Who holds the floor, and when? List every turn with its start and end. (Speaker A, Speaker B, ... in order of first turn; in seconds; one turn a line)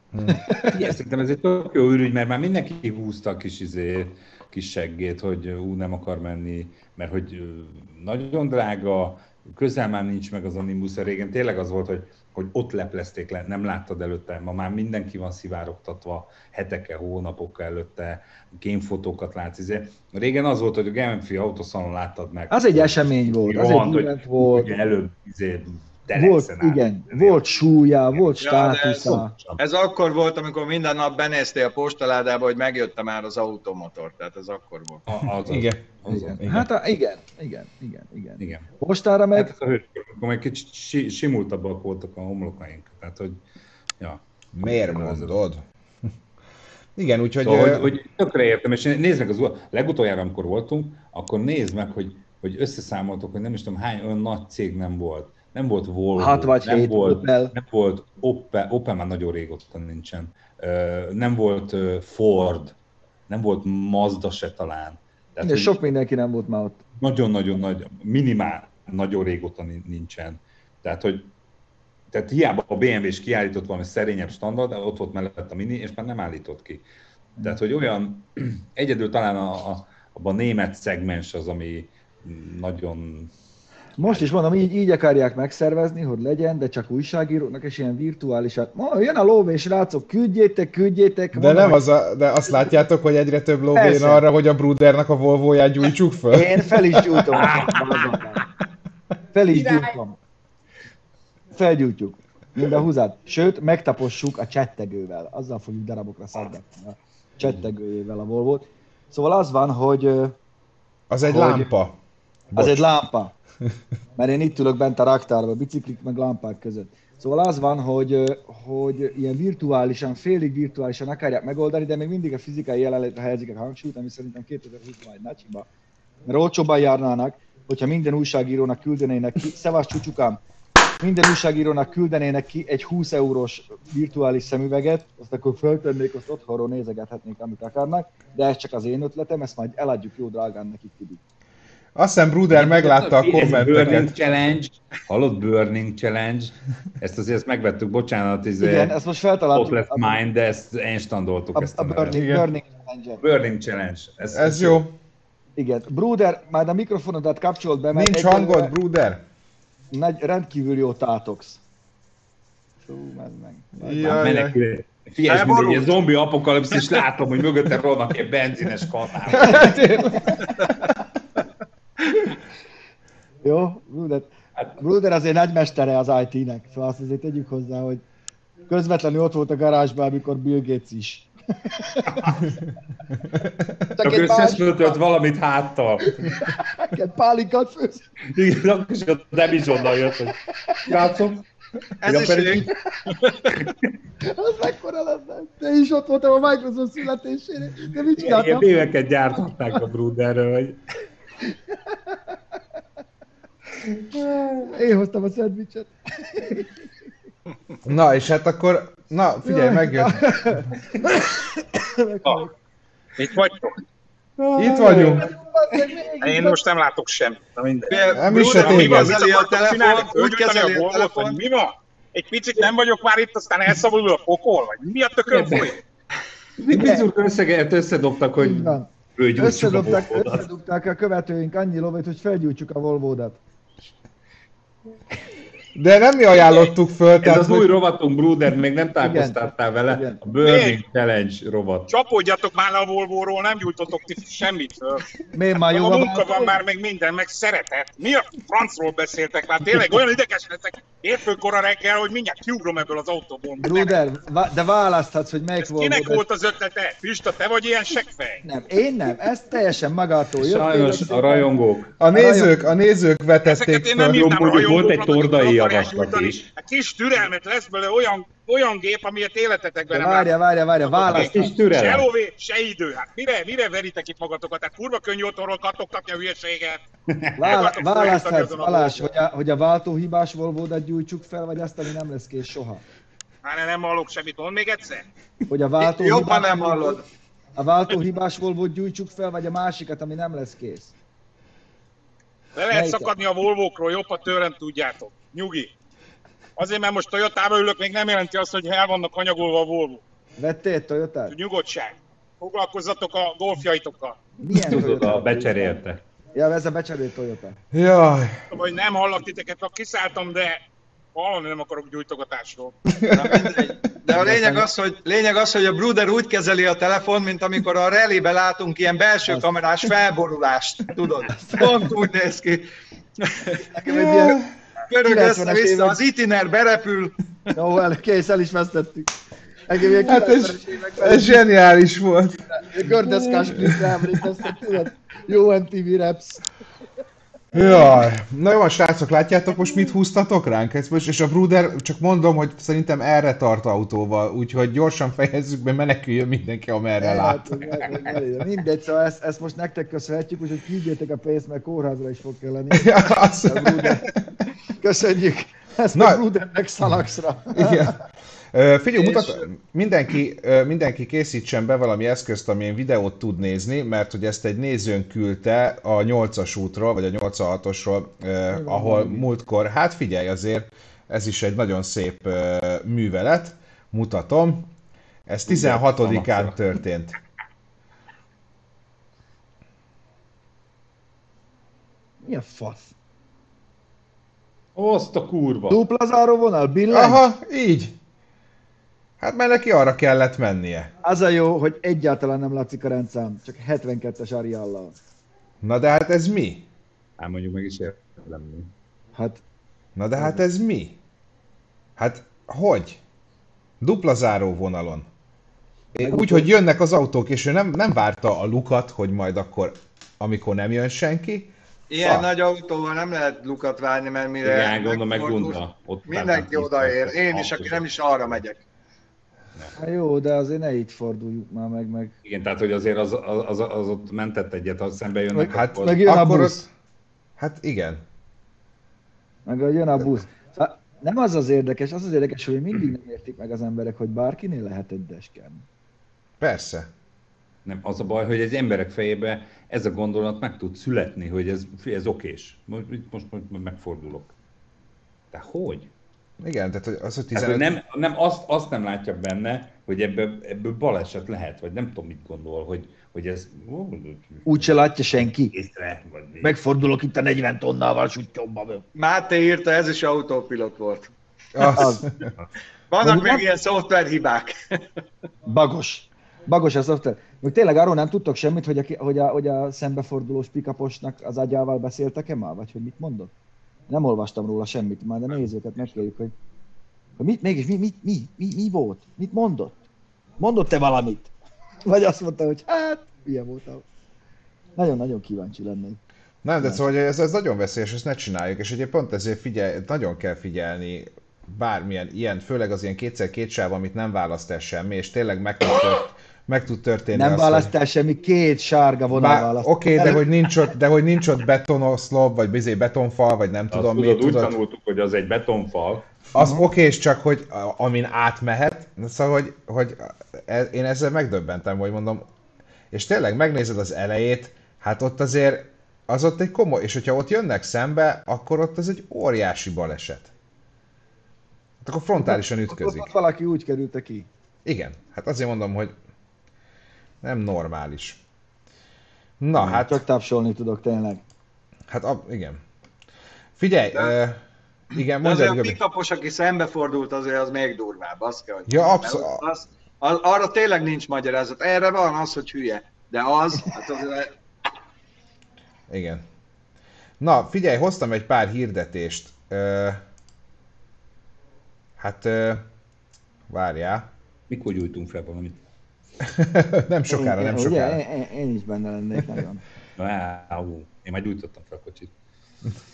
Speaker A: 0.1-0.4
Speaker B: 0.3-0.8
Speaker C: 0.6-27.4
Speaker B: 22.5-24.7
Speaker B: 26.1-29.3
Speaker D: 28.4-35.0
Speaker C: 29.0-29.6
Speaker C: 35.1-36.5
Speaker A: 35.4-36.7
Speaker B: 36.1-39.5
Speaker C: 38.4-38.7
Speaker C: 39.3-43.4
Speaker C: 44.0-45.4
Speaker A: 44.5-45.6
Speaker A: 47.0-47.9
Speaker C: 47.4-62.8
Speaker B: 56.2-57.5
Speaker C: 63.3-65.8
Speaker B: 65.4-66.8
Speaker C: 67.0-71.3
Speaker C: 72.1-76.8
Speaker C: 77.4-83.3
Speaker B: 84.0-91.8
Speaker C: 84.0-84.3
Speaker A: 91.3-97.3
Speaker B: 93.7-94.2
Speaker B: 96.3-98.5
Speaker C: 97.4-98.2
Speaker B: 99.3-100.2
Speaker E: 99.6-99.8
Speaker B: 101.5-110.3
Speaker A: 111.1-112.0
Speaker B: 111.3-111.7
Speaker A: 112.5-112.8
Speaker B: 112.5-113.3
Speaker B: 114.2-125.7
Speaker B: 126.3-130.4
Speaker B: 131.0-141.2
Speaker A: 141.9-144.2
Speaker C: 142.5-149.0
Speaker B: 148.6-150.2
Speaker C: 149.5-152.2
Speaker B: 151.6-153.2
Speaker A: 152.2-152.5
Speaker C: 153.2-154.8
Speaker A: 154.3-154.9
Speaker B: 155.6-158.7
Speaker A: 157.9-159.2
Speaker B: 159.9-161.6
Speaker B: 162.8-164.3
Speaker A: 163.8-164.6
Speaker C: 164.1-169.8
Speaker D: 165.3-166.0
Speaker A: 169.3-170.4
Speaker B: 173.4-178.0
Speaker B: 178.7-182.4
Speaker B: 183.9-185.0
Speaker C: 184.0-186.4
Speaker B: 186.2-188.1
Speaker C: 188.3-191.4
Speaker D: 192.0-193.5
Speaker C: 192.0-192.7
Speaker C: 193.6-193.9
Speaker B: 194.2-198.8
Speaker C: 198.2-200.8
Speaker C: 204.0-204.7
Speaker B: 204.6-206.8
Speaker A: 207.8-210.6
Speaker B: 209.4-212.5
Speaker E: 213.2-213.7
Speaker C: 214.4-215.2
Speaker A: 214.6-215.3
Speaker B: 214.8-216.6
Speaker E: 216.2-225.8
Speaker D: 217.9-221.4
Speaker A: 218.1-219.2
Speaker C: 225.3-225.8
Speaker C: 226.6-230.5
Speaker B: 226.7-227.1
Speaker B: 228.4-233.4
Speaker A: 235.8-237.8
Speaker C: 237.2-241.9
Speaker B: 239.0-240.2
Speaker E: 240.4-240.8
Speaker E: 241.9-245.0
Speaker B: 245.3-246.6
Speaker E: 245.6-254.0
Speaker B: 253.6-256.2
Speaker E: 255.6-258.4
Speaker B: 258.4-261.5
Speaker C: 260.4-261.9
Speaker A: 262.0-264.4
Speaker B: 262.1-262.6
Speaker E: 263.5-270.3
Speaker C: 264.1-266.5
Speaker B: 269.9-271.5
Speaker E: 270.8-276.8
Speaker C: 271.1-272.1
Speaker C: 277.1-277.6
Speaker B: 277.4-282.9
Speaker E: 277.4-279.2
Speaker E: 283.4-285.1
Speaker B: 285.5-287.0
Speaker D: 285.8-287.0
Speaker B: 287.6-290.9
Speaker E: 292.6-295.7
Speaker B: 292.7-293.1
Speaker E: 296.6-300.0
Speaker B: 300.4-301.4
Speaker E: 301.3-304.2
Speaker B: 304.4-305.8
Speaker C: 304.5-306.0
Speaker B: 306.3-307.6
Speaker A: 307.7-308.5
Speaker E: 308.5-310.6
Speaker E: 311.1-312.7
Speaker A: 312.9-313.6
Speaker D: 313.1-322.7
Speaker B: 314.1-314.7
Speaker B: 321.3-321.8
Speaker D: 323.2-323.6
Speaker B: 323.6-324.4
Speaker A: 323.9-324.5
Speaker D: 324.9-327.1
Speaker B: 325.1-326.0
Speaker B: 327.5-329.1
Speaker B: 329.7-331.4
Speaker A: 330.0-334.2
Speaker B: 332.5-336.4
Speaker A: 337.5-347.4
Speaker B: 347.0-354.1
Speaker A: 352.7-354.1
Speaker B: 354.8-358.0
Speaker A: 355.9-356.2
Speaker A: 357.5-358.0
Speaker A: 358.5-374.7
Speaker D: 359.0-359.4
Speaker B: 368.5-369.2
Speaker A: 375.3-377.1
Speaker C: 375.5-376.7
Speaker B: 382.2-382.9
Speaker C: 384.8-385.8
Speaker B: 385.7-387.3
Speaker A: 386.9-387.9
Speaker A: 389.2-390.9
Speaker B: 391.0-395.0
Speaker A: 395.6-396.6
Speaker C: 397.2-398.7
Speaker B: 399.1-399.4
Speaker A: 400.0-401.0
Speaker A: 402.0-403.0
Speaker A: 403.8-405.1
Speaker A: 405.9-412.3
Speaker B: 406.0-406.5
Speaker D: 411.9-418.6
Speaker C: 414.4-418.4
Speaker B: 419.8-422.1
Speaker C: 422.2-426.0
Speaker B: 425.4-426.6
Speaker A: 425.5-426.7
Speaker A: 427.4-428.0
Speaker B: 429.5-435.6
Speaker A: 436.4-436.9
Speaker C: 437.6-444.3
Speaker C: 445.3-445.9
Speaker A: 446.4-447.8
Speaker C: 447.3-454.8
Speaker B: 454.5-455.5
Speaker C: 455.5-456.6
Speaker B: 456.4-458.8
Speaker D: 458.9-461.1
Speaker A: 461.6-462.3
Speaker B: 461.8-462.1
Speaker D: 462.9-464.6
Speaker B: 463.0-463.4
Speaker B: 465.5-473.3
Speaker B: 473.9-476.3
Speaker B: 477.2-479.8
Speaker B: 480.4-481.3
Speaker B: 481.9-483.8
Speaker B: 484.8-486.0
Speaker A: 486.4-497.7
Speaker B: 497.1-500.2
Speaker A: 499.1-504.6
Speaker C: 503.7-506.1
Speaker A: 506.3-512.2
Speaker B: 506.4-506.6
Speaker A: 512.9-520.3
Speaker A: 521.8-523.1
Speaker B: 522.2-524.3
Speaker A: 524.6-525.9
Speaker A: 527.2-528.2
Speaker A: 529.4-530.0
Speaker B: 529.5-531.2
Speaker A: 531.9-532.6
Speaker A: 533.6-535.8
Speaker D: 535.2-544.3
Speaker A: 538.7-539.4
Speaker A: 545.9-546.2
Speaker A: 547.2-550.0
Speaker A: 552.0-552.6
Speaker A: 553.5-554.1
Speaker C: 554.5-555.6
Speaker A: 556.2-558.0
Speaker B: 557.1-559.6
Speaker C: 560.0-562.1